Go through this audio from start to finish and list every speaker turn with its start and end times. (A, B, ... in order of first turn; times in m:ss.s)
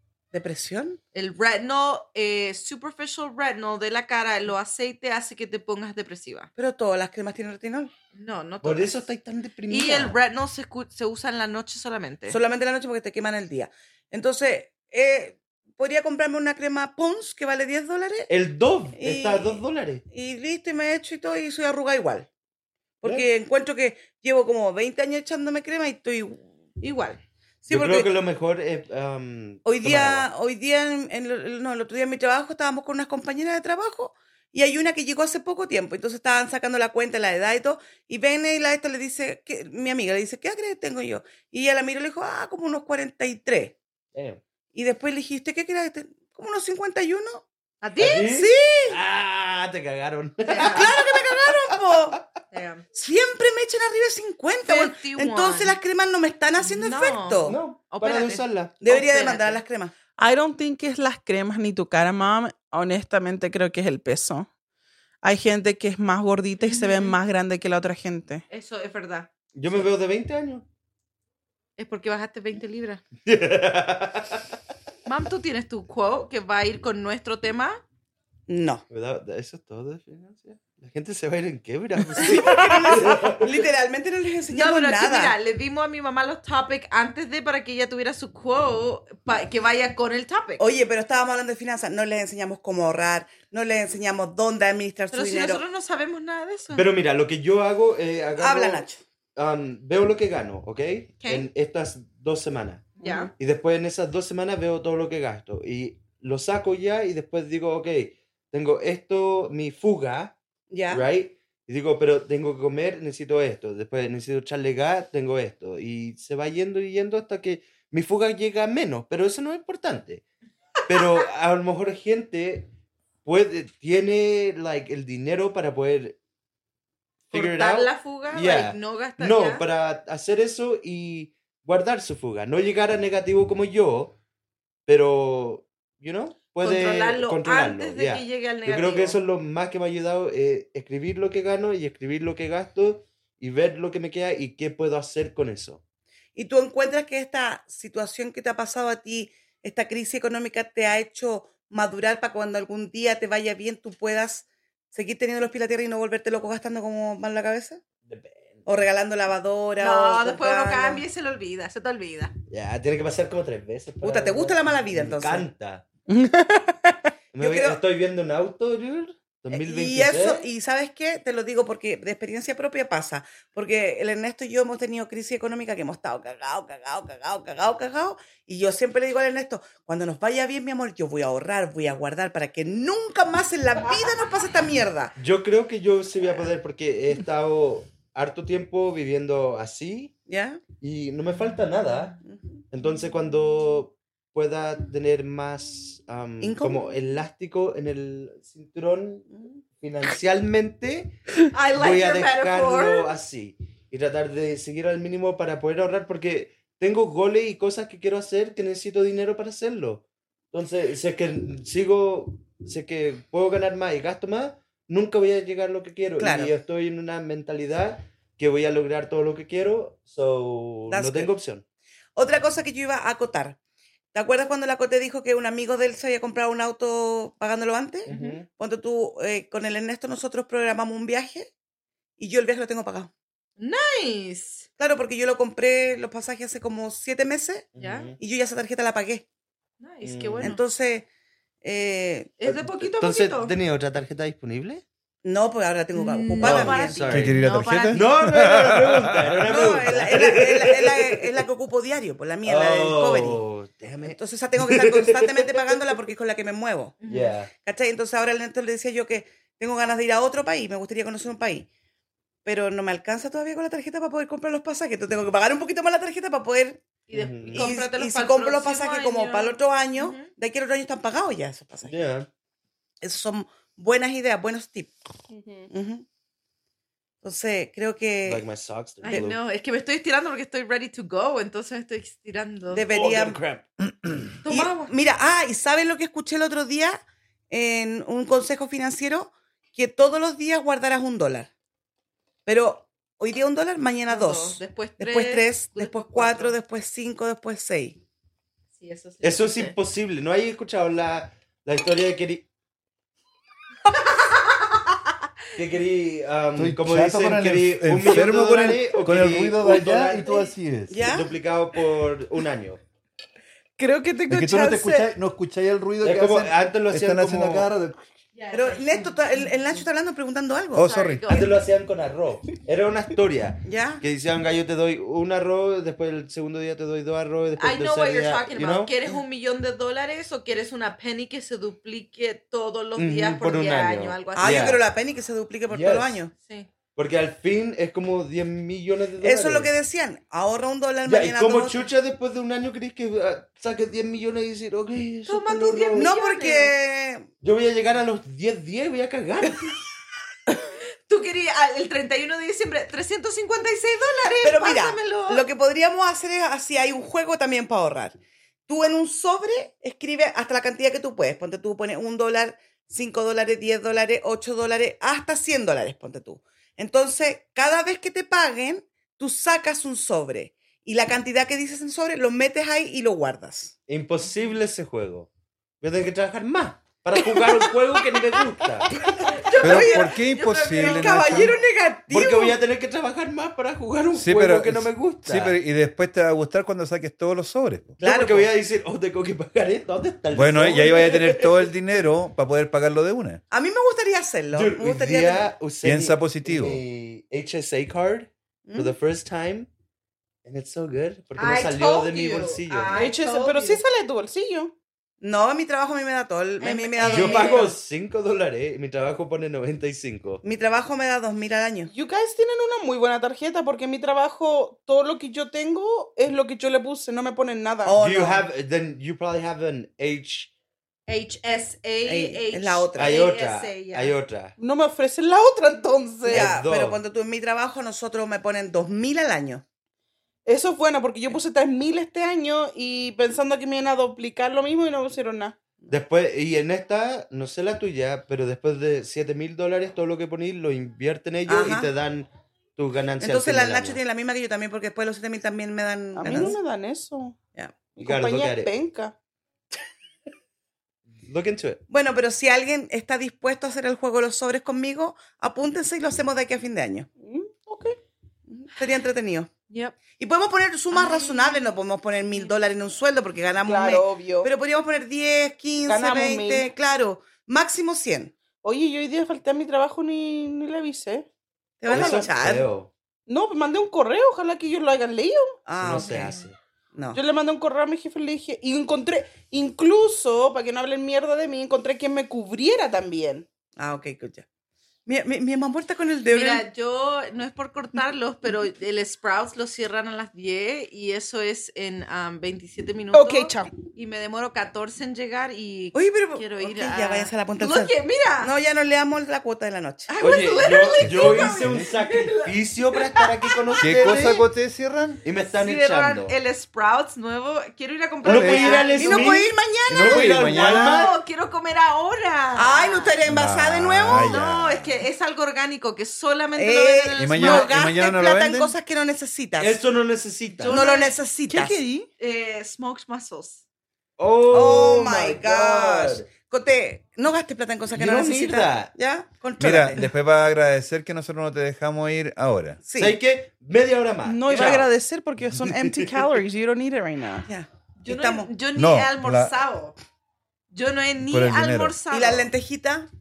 0:00.3-0:01.0 A
0:01.1-0:06.5 B
0:06.6-0:07.9 A
0:08.1-0:09.0 B
0:08.6-0:10.2 C
0:09.7-0:12.4 B
0:12.3-0:18.3 A
0:18.3-0:20.0 C
0:19.0-0:22.3 A
0:23.0-0:28.2 A
0:27.7-0:30.3 C
0:29.6-0:43.7 A
0:44.1-0:44.4 C
0:44.7-0:47.4 A
0:47.8-0:48.3 B
0:48.0-0:52.2 C
0:48.0-0:49.0 A
0:50.4-0:50.9 B
0:50.7-0:52.2 A
0:52.5-0:52.8 B
0:52.9-0:57.6 A
0:54.6-0:55.8 B
0:56.6-0:59.6 B
0:57.4-0:58.8 C
0:58.8-0:59.9 A
1:00.2-1:04.5 D
1:05.2-1:08.4 D
1:06.6-1:07.2 B
1:08.5-1:09.8 B
1:09.6-1:10.6 C
1:11.8-1:13.0 B
1:13.2-1:14.4 C
1:15.1-1:17.8 B
1:18.5-1:18.8 A
1:18.9-1:23.6 C
1:22.2-1:25.4 A
1:22.2-1:22.8 B
1:24.5-1:30.6 B
1:30.6-1:35.6 A
1:35.1-1:36.9 B
1:36.7-1:38.8 C
1:38.4-1:39.0 A
1:39.4-1:50.4 C
1:41.2-1:41.5 B
1:43.0-1:43.3 B
1:43.0-1:43.3 A
1:50.7-1:51.0 A
1:50.9-2:00.2 C
2:00.9-2:02.7 C
2:01.0-2:01.3 B
2:03.2-2:06.2 C
2:07.3-2:14.2 C
2:07.3-2:09.6 B
2:14.9-2:25.8 C
2:16.6-2:19.2 B
2:26.4-2:37.8 A
2:38.0-2:38.7 C
2:38.7-2:41.0 A
2:39.8-2:42.3 B
2:42.5-2:45.8 C
2:44.0-2:45.5 A
2:46.1-2:47.1 D
2:47.3-2:50.5 C
2:47.4-2:47.8 A
2:49.5-3:05.2 A
3:05.2-3:10.1 C
3:10.3-3:10.6 A
3:10.8-3:12.2 C
3:12.2-3:12.6 A
3:12.7-3:21.2 C
3:16.4-3:17.0 A
3:19.3-3:19.6 A
3:21.5-3:23.1 B
3:21.7-3:41.6 C
3:36.2-3:36.5 A
3:40.9-3:41.3 A
3:42.2-3:43.6 A
3:44.1-3:51.5 A
3:48.1-3:48.4 B
3:48.1-3:48.5 C
3:52.2-3:53.1 A
3:53.6-3:54.7 B
3:54.8-3:59.2 A
3:57.7-3:58.2 C
3:57.8-3:58.1 B
3:59.8-4:00.6 B
4:00.0-4:00.6 C
4:00.4-4:01.1 A
4:01.6-4:02.4 A
4:02.4-4:03.5 B
4:02.4-4:04.8 C
4:05.2-4:07.2 A
4:05.9-4:08.2 B
4:06.4-4:11.4 C
4:07.1-4:09.6 E
4:09.4-4:13.4 A
4:12.4-4:16.0 C
4:14.0-4:17.0 A
4:17.0-4:17.4 B
4:17.1-4:17.5 C
4:17.6-4:21.7 A
4:22.4-4:26.8 A
4:27.1-4:30.3 B
4:27.1-4:27.7 C
4:27.5-4:31.9 A
4:31.8-4:32.3 C
4:33.0-4:34.9 A
4:35.3-4:35.7 D
4:35.7-4:36.0 A
4:37.2-4:38.4 A
4:38.2-4:39.4 C
4:39.0-4:42.8 B
4:42.7-4:43.4 A
4:42.9-4:44.4 C
4:44.4-4:44.9 B
4:44.5-4:51.5 A
4:52.4-4:58.0 A
4:54.1-4:56.6 B
4:58.7-4:59.7 B
4:59.2-5:02.5 C
5:03.9-5:04.6 B
5:05.6-5:12.8 C
5:06.6-5:11.0 E
5:10.9-5:11.3 A
5:13.8-5:15.1 D
5:14.3-5:18.0 E
5:16.0-5:17.7 C
5:18.4-5:19.8 B
5:18.5-5:21.5 A
5:20.7-5:21.3 E
5:20.8-5:21.6 B
5:21.3-5:28.9 C
5:23.6-5:24.0 A
5:27.6-5:34.8 B
5:33.0-5:34.8 C
5:34.4-5:36.3 A
5:35.7-5:36.2 C
5:36.4-5:36.7 B
5:37.0-5:39.7 C
5:39.2-5:41.8 A
5:41.0-5:46.1 C
5:45.3-5:46.7 B
5:46.0-5:47.3 A
5:47.4-5:49.7 C
5:51.1-5:55.4 B
5:54.4-6:13.8 A
6:13.9-6:15.3 C
6:15.8-6:19.1 C
6:19.4-6:21.6 B
6:19.5-6:22.6 A
6:19.6-6:21.6 E
6:22.1-6:25.6 C
6:24.1-6:28.0 E
6:28.0-6:31.6 C
6:28.0-6:28.5 A
6:30.3-6:33.4 E
6:33.5-6:35.5 A
6:34.5-6:39.7 C
6:35.8-6:36.8 E
6:38.7-6:39.0 A
6:40.4-6:43.0 C
6:41.4-6:43.8 B
6:42.9-6:44.7 D
6:45.2-6:47.8 A
6:46.6-6:47.6 B
6:47.0-6:50.4 C
6:50.4-6:51.9 A
6:51.9-6:57.9 D
6:57.8-6:58.5 A
6:58.0-7:00.5 C
7:01.1-7:04.1 B
7:02.0-7:03.3 A
7:03.0-7:04.6 C
7:04.6-7:06.5 D
7:06.2-7:07.0 C
7:06.2-7:09.6 A
7:10.5-7:15.6 D
7:15.9-7:24.0 C
7:21.5-7:21.9 A
7:23.2-7:26.6 A
7:26.1-7:27.3 D
7:28.0-7:29.1 D
7:28.0-7:28.7 C
7:31.2-7:31.8 C
7:31.9-7:37.1 A
7:37.2-7:38.0 D
7:38.5-7:39.5 A
7:39.7-7:40.0 B
7:40.1-7:48.3 A
7:40.9-7:41.8 B
7:43.6-7:44.5 D
7:45.9-7:46.7 D
7:48.6-7:51.2 D
7:51.8-7:52.7 A
7:51.9-7:52.9 C
7:51.9-7:52.2 D
7:53.3-7:55.6 D
7:55.7-7:56.4 A
7:55.8-7:56.6 C
7:55.9-7:56.5 B
7:57.1-8:03.5 D
8:03.8-8:04.4 A
8:05.1-8:06.6 A
8:06.3-8:18.5 B
8:13.1-8:13.7 D
8:16.0-8:20.1 A
8:20.1-8:24.1 B
8:20.2-8:24.4 C
8:20.7-8:21.9 E
8:23.8-8:25.2 E
8:25.2-8:26.3 C
8:25.4-8:29.3 B
8:28.2-8:31.1 C
8:28.2-8:28.8 E
8:28.6-8:30.6 A
8:29.9-8:31.1 E
8:30.5-8:33.2 B
8:32.6-8:34.4 A
8:33.2-8:34.9 E
8:34.1-8:37.9 B
8:36.6-8:39.8 A
8:37.2-8:38.8 E
8:39.6-8:40.9 C
8:40.6-8:41.2 B
8:40.6-8:41.8 A
8:41.5-8:42.1 D
8:42.2-8:43.6 B
8:44.2-8:46.3 C
8:44.5-8:50.1 A
8:47.9-8:48.9 C
8:49.6-8:52.8 E
8:52.8-8:53.2 A
8:53.0-8:54.9 C
8:54.2-8:57.5 D
8:55.6-8:56.1 C
8:57.5-8:58.5 A
8:58.0-9:00.0 B
8:58.8-8:59.6 E
9:00.7-9:02.5 B
9:01.3-9:02.0 E
9:02.1-9:03.1 A